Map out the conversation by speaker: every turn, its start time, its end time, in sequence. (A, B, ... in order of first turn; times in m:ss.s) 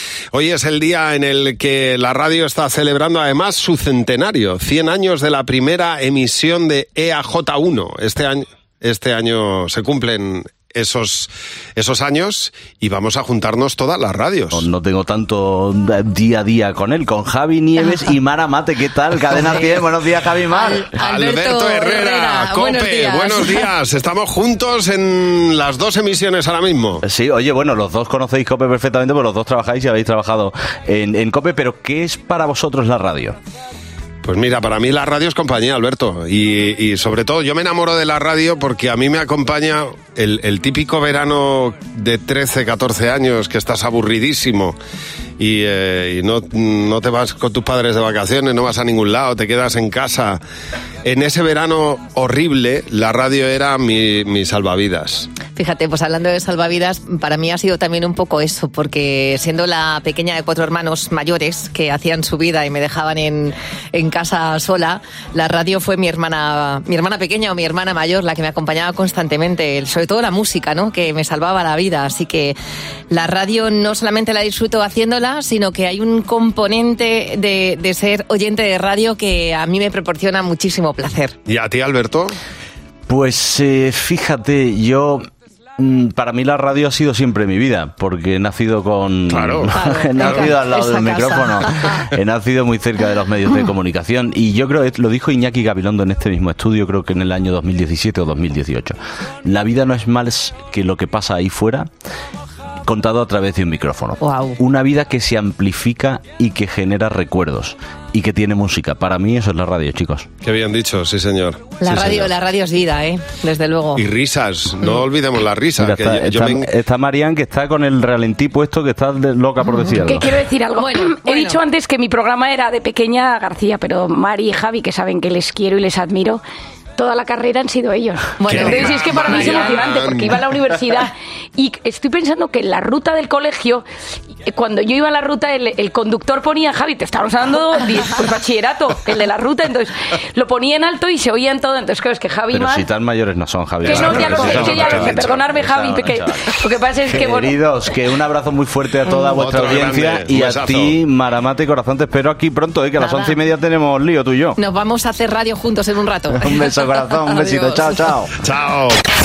0:00.3-0:14.7 A
0:14.5-0:20.9 B
0:19.3-0:19.8 C
0:20.5-0:23.7 C
0:20.9-0:27.0 A
0:27.0-0:33.4 B
0:34.2-0:44.8 A
0:45.4-0:50.4 A
0:51.0-0:55.3 A
0:55.5-1:12.6 C
1:13.1-1:21.4 C
1:21.5-1:22.4 A
1:23.1-1:25.2 B
1:25.8-1:41.9 B
1:29.3-1:30.6 A
1:29.7-1:32.0 C
1:42.8-1:50.3 B
1:44.2-1:44.6 C
1:50.4-1:52.3 A
1:51.8-1:54.0 C
1:54.0-1:56.7 A
1:55.8-2:00.3 B
1:59.6-2:00.0 C
2:00.0-2:06.4 D
2:00.8-2:01.6 C
2:07.0-2:13.8 D
2:08.4-2:09.9 C
2:08.4-2:10.4 A
2:14.5-2:22.9 D
2:22.5-2:34.6 B
2:23.8-2:25.5 A
2:23.9-2:27.6 D
2:29.3-2:31.0 A
2:33.0-2:33.4 C
2:34.6-2:38.0 C
2:36.3-2:38.3 B
2:38.4-2:39.0 A